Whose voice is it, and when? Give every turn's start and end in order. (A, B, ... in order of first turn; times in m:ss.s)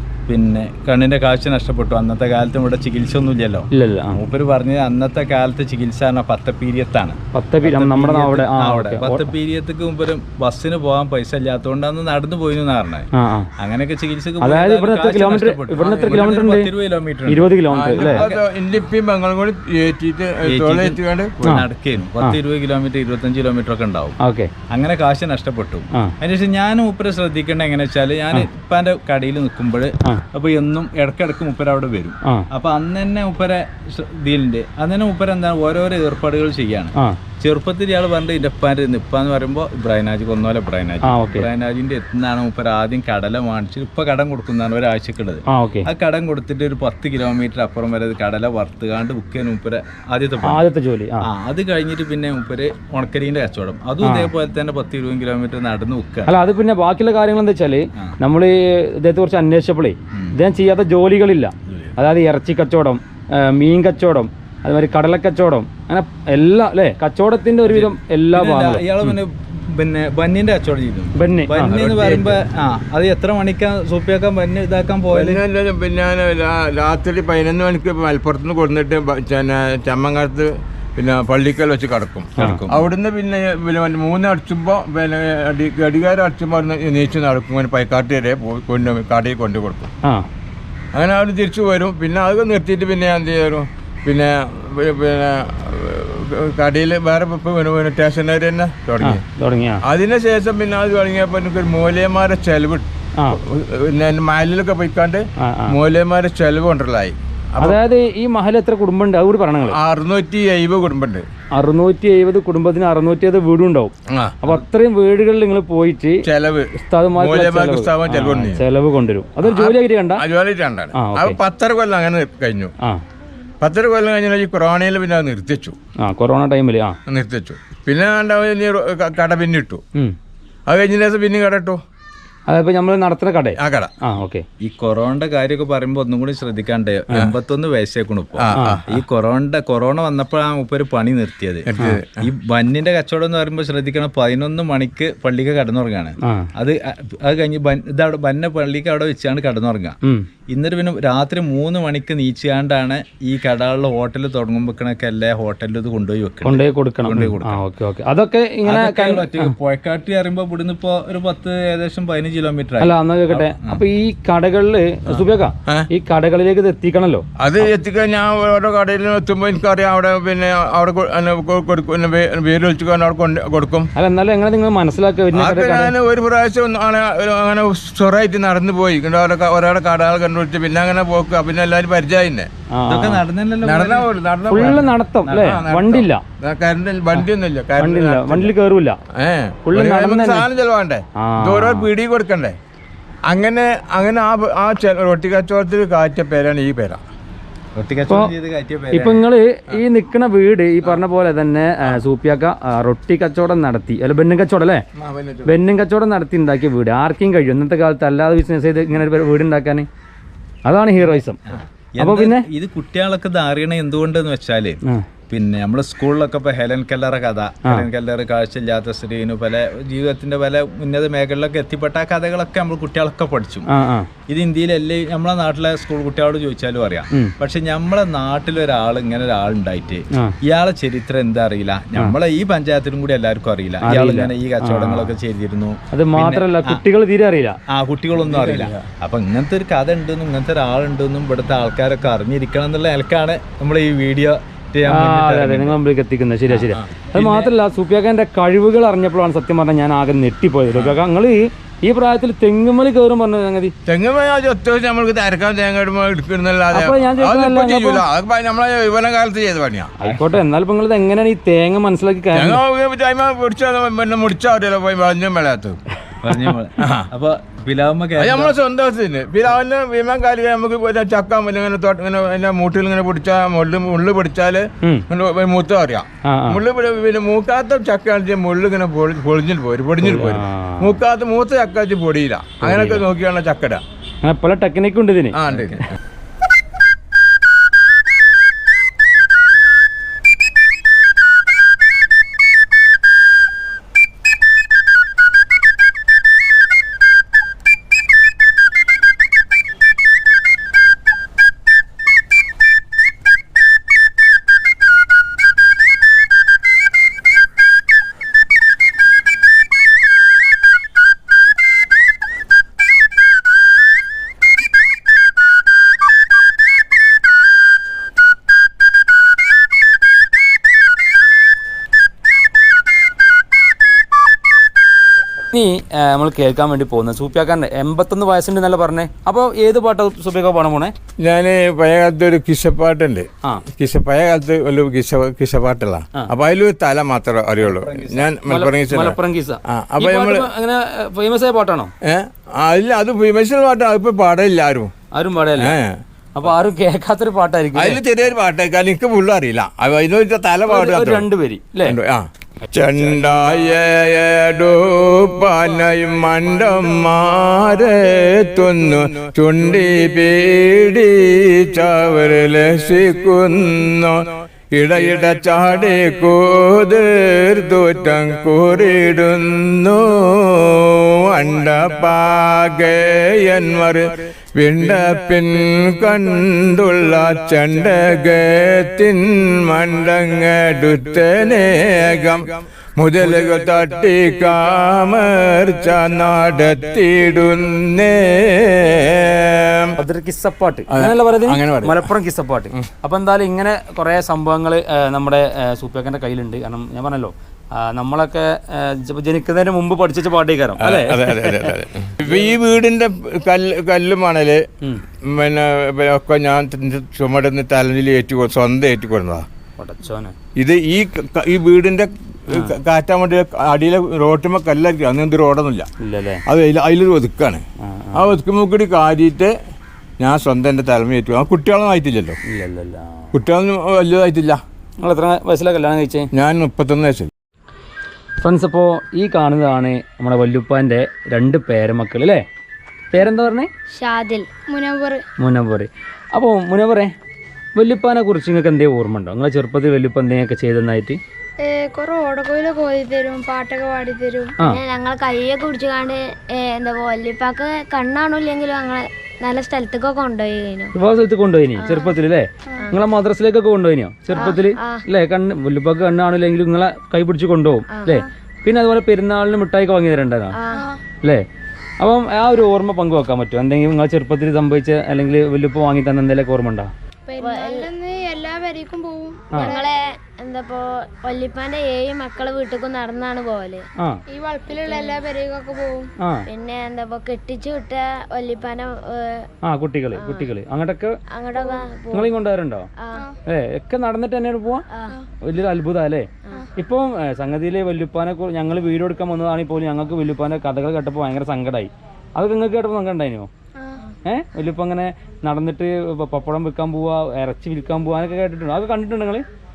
0:00.3-0:18.4 A
0:03.7-0:04.2 B
0:07.3-0:09.3 B
0:13.1-0:13.5 B
0:14.4-0:16.7 B
0:15.8-0:16.1 C
0:17.2-0:18.2 B
0:17.7-0:21.5 C
0:20.4-0:24.2 A
0:24.2-0:24.5 B
0:24.7-0:50.6 A
0:41.0-0:41.5 B
0:45.5-0:45.9 B
0:50.4-0:51.3 B
0:51.2-0:56.3 A
0:54.0-0:54.3 B
0:56.2-1:08.8 B
1:07.7-1:15.4 A
1:11.2-1:11.7 B
1:11.7-1:12.3 C
1:15.1-1:29.9 C
1:22.4-1:22.9 A
1:30.9-1:39.2 C
1:39.0-1:39.8 B
1:39.8-1:47.8 C
1:45.4-1:45.7 B
1:47.6-1:49.8 B
1:49.7-1:51.2 C
1:51.6-1:56.2 B
1:54.1-1:54.5 C
1:56.2-1:58.6 C
1:56.8-2:00.2 B
1:59.4-2:02.7 C
2:00.9-2:01.4 B
2:03.6-2:05.8 C
2:06.0-2:07.0 B
2:07.1-2:09.8 C
2:10.7-2:11.8 C
2:12.5-2:14.4 B
2:13.6-2:13.9 C
2:14.6-2:21.7 A
2:18.4-2:18.8 C
2:18.5-2:18.8 B
2:21.7-2:22.2 C
2:22.2-2:30.0 A
2:30.5-2:37.6 A
2:36.4-2:39.5 B
2:38.6-2:43.8 A
2:42.8-2:47.7 B
2:47.4-2:53.9 C
2:54.0-2:55.9 B
2:55.3-3:02.5 C
3:02.7-3:03.2 B
3:02.9-3:04.1 A
3:03.6-3:04.9 C
3:04.5-3:06.2 B
3:05.2-3:05.6 A
3:05.4-3:08.5 C
3:07.8-3:09.0 B
3:09.1-3:12.6 C
3:09.7-3:10.5 B
3:11.2-3:11.9 B
3:13.3-3:17.0 C
3:17.7-3:19.3 A
3:18.9-3:24.8 B
3:25.0-3:25.6 C
3:25.4-3:29.9 B
3:30.6-3:31.4 B
3:31.5-3:43.7 A
3:32.0-3:32.4 B
3:43.7-3:44.1 B
3:44.3-3:56.8 A
3:53.8-3:55.1 B
3:55.9-3:57.6 B
3:57.7-4:05.8 A
3:58.2-3:58.8 C
4:04.9-4:13.7 B
4:06.5-4:07.5 A
4:10.7-4:11.0 C
4:13.8-4:19.9 C
4:16.7-4:18.0 B
4:20.0-4:22.6 B
4:22.3-4:25.8 C
4:26.2-4:28.6 A
4:26.8-4:27.1 C
4:28.2-4:43.8 C
4:36.3-4:36.6 B
4:40.0-4:41.0 B
4:42.6-4:43.0 B
4:44.2-4:45.4 B
4:45.3-4:45.8 C
4:45.5-4:45.8 A
5:25.5-5:30.9 B
5:31.2-5:40.5 C
5:37.6-5:38.3 A
5:38.4-5:41.9 B
5:42.0-5:44.9 C
5:45.1-5:45.7 B
5:45.6-5:46.0 C
5:46.4-5:48.0 B
5:47.7-5:51.2 C
5:50.7-5:52.0 B
5:51.8-6:29.9 C
6:30.0-6:41.8 B
6:30.9-6:32.0 C
6:40.8-6:44.6 C
6:45.3-6:49.4 C
6:49.8-6:50.4 B
6:50.6-6:55.9 C
6:56.0-6:56.4 B
6:56.5-6:57.6 C
6:57.8-6:58.3 B
6:58.1-6:59.5 C
7:00.2-7:02.4 C
7:02.5-7:03.3 B
7:03.3-7:04.6 C
7:05.0-7:06.3 B
7:06.3-7:07.3 C
7:08.4-7:12.4 B
7:13.1-7:13.7 B
7:13.9-7:14.5 D
7:14.7-7:15.2 E
7:15.4-7:17.1 B
7:17.8-7:21.2 B
7:21.6-7:24.6 E
7:24.6-7:30.9 D
7:30.9-7:40.5 B
7:31.8-7:32.2 D
7:34.3-7:35.0 D
7:37.9-7:38.2 D
7:40.5-7:40.8 D
7:40.7-7:41.0 E
7:42.0-7:46.9 B
7:47.3-7:49.9 E
7:47.4-7:47.9 D
7:49.5-7:53.8 D
7:54.3-7:56.1 E
7:54.7-7:55.2 D
7:56.2-7:56.5 B
7:56.5-7:59.5 D
7:59.6-8:01.2 B
8:00.1-8:00.5 D
8:01.3-8:02.4 D
8:01.6-8:01.8 E
8:02.1-8:02.9 B
8:03.4-8:04.9 B
8:05.4-8:13.5 B
8:13.8-8:14.0 E
8:14.2-8:19.4 B